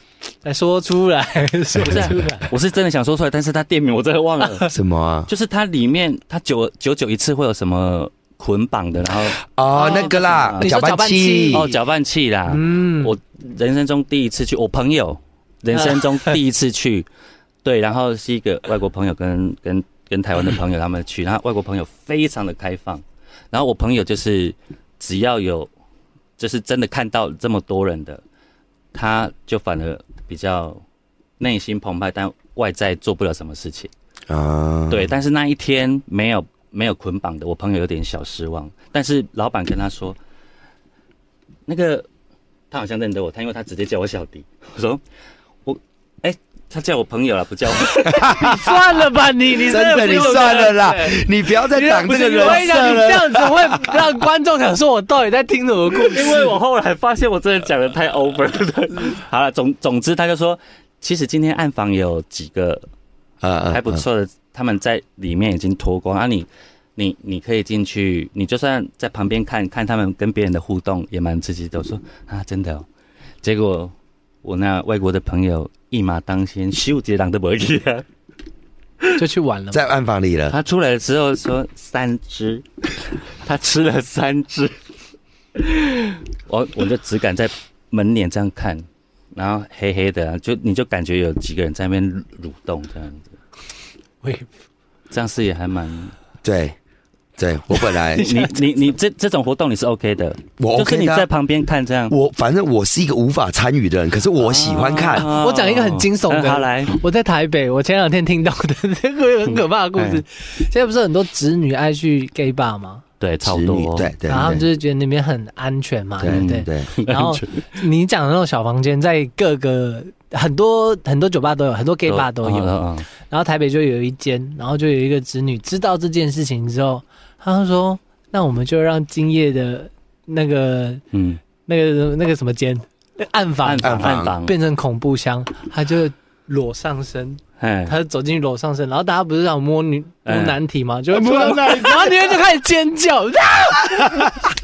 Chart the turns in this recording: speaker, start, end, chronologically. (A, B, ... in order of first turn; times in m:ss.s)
0:00.4-0:02.5 A
0:01.8-0:04.7 B
0:04.4-0:04.7 A
0:04.7-0:05.3 C
0:05.3-0:10.7 B
0:09.4-0:11.7 C
0:09.7-0:11.7 A
0:11.5-0:17.1 B
0:12.5-0:13.1 A
0:15.7-0:16.4 A
0:17.6-0:25.7 B
0:26.4-0:28.2 B
0:28.9-0:30.8 B
0:31.4-0:33.9 B
0:34.3-0:35.1 C
0:34.9-0:40.2 B
0:41.7-0:42.1 B
0:42.7-0:45.0 B
0:45.6-0:48.4 B
0:47.9-0:56.5 A
0:48.2-0:48.6 C
0:49.6-0:54.0 C
0:49.7-0:51.2 B
0:51.8-0:53.1 B
0:56.0-1:02.8 B
1:03.4-1:04.0 C
1:03.7-1:12.8 B
1:13.4-1:18.0 B
1:19.2-1:19.8 A
1:19.7-1:20.6 C
1:20.5-1:24.7 B
1:25.5-1:33.3 B
1:34.2-1:34.5 A
1:35.1-1:36.1 B
1:36.4-1:36.8 C
1:37.4-1:38.3 C
1:37.8-1:38.6 A
1:38.1-1:42.1 B
1:40.6-1:41.3 C
1:42.1-1:45.3 C
1:44.4-1:47.0 B
1:45.1-1:53.0 A
1:49.5-1:50.2 B
1:53.2-1:54.1 B
1:53.4-1:54.6 C
1:54.3-2:11.0 A
1:56.2-1:56.9 C
1:56.3-1:57.6 B
2:02.0-2:03.1 B
2:11.1-2:11.4 B
2:11.6-2:24.4 A
2:13.6-2:14.5 B
2:13.8-2:14.3 C
2:17.6-2:18.0 B
2:20.2-2:20.6 B
2:21.1-2:22.4 C